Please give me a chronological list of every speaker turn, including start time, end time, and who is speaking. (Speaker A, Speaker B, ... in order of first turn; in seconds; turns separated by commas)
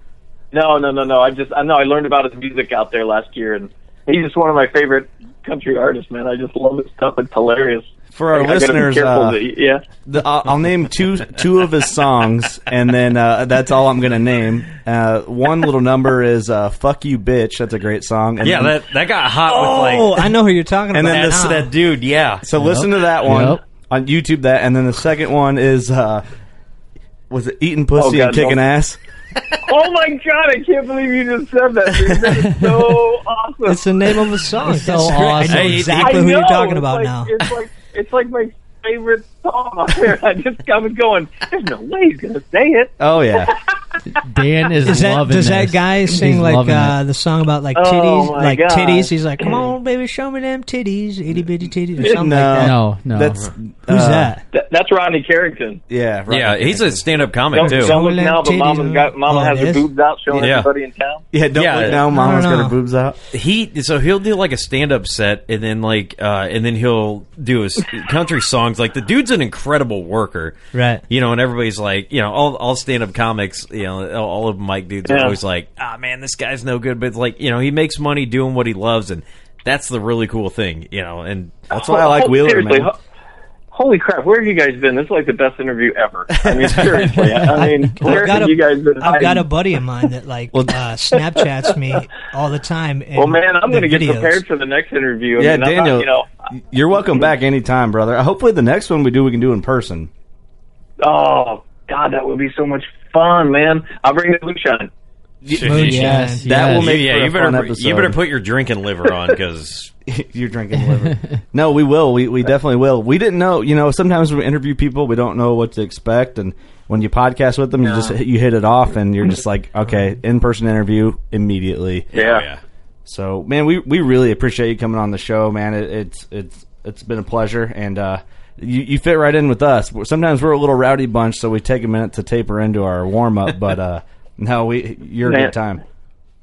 Speaker A: 0.5-9.8, Speaker B: 8.1-9.4, Speaker B: 10.1-18.8, Speaker C: 18.4-20.3, Speaker D: 19.5-21.7, Speaker B: 20.9-21.7, Speaker C: 21.1-22.5, Speaker B: 22.4-26.2, Speaker E: 22.6-23.6, Speaker B: 27.3-29.0, Speaker A: 27.9-28.6, Speaker A: 29.6-34.1, Speaker B: 32.0-32.4, Speaker D: 33.7-37.3, Speaker E: 34.6-35.9, Speaker C: 35.5-36.2, Speaker A: 35.8-43.6, Speaker B: 43.0-43.5, Speaker E: 44.2-47.0, Speaker D: 44.9-52.7, Speaker A: 47.7-49.7, Speaker B: 52.0-54.4, Speaker E: 52.5-53.4, Speaker D: 53.9-54.4, Speaker A: 54.5-55.8, Speaker B: 55.9-57.3, Speaker C: 56.3-58.0, Speaker A: 57.5-61.2, Speaker D: 57.6-59.9, Speaker C: 60.3-60.7, Speaker B: 61.3-63.2, Speaker C: 61.5-62.0, Speaker D: 62.1-62.8, Speaker C: 63.3-70.6, Speaker D: 70.7-71.0, Speaker C: 71.1-81.7, Speaker A: 75.1-75.4, Speaker B: 81.7-82.9, Speaker A: 81.7-83.0, Speaker A: 83.7-89.5, Speaker B: 86.3-87.3, Speaker C: 86.7-87.4, Speaker D: 87.6-94.4, Speaker A: 93.2-96.3, Speaker B: 95.4-100.1, Speaker A: 101.0-104.9, Speaker B: 105.4-108.2, Speaker C: 105.5-106.1, Speaker D: 105.7-106.5, Speaker E: 105.7-106.9, Speaker C: 106.6-109.9, Speaker B: 110.1-122.1, Speaker A: 117.8-118.2, Speaker C: 122.1-122.6, Speaker A: 122.1-122.5, Speaker B: 123.1-135.8, Speaker A: 135.2-135.5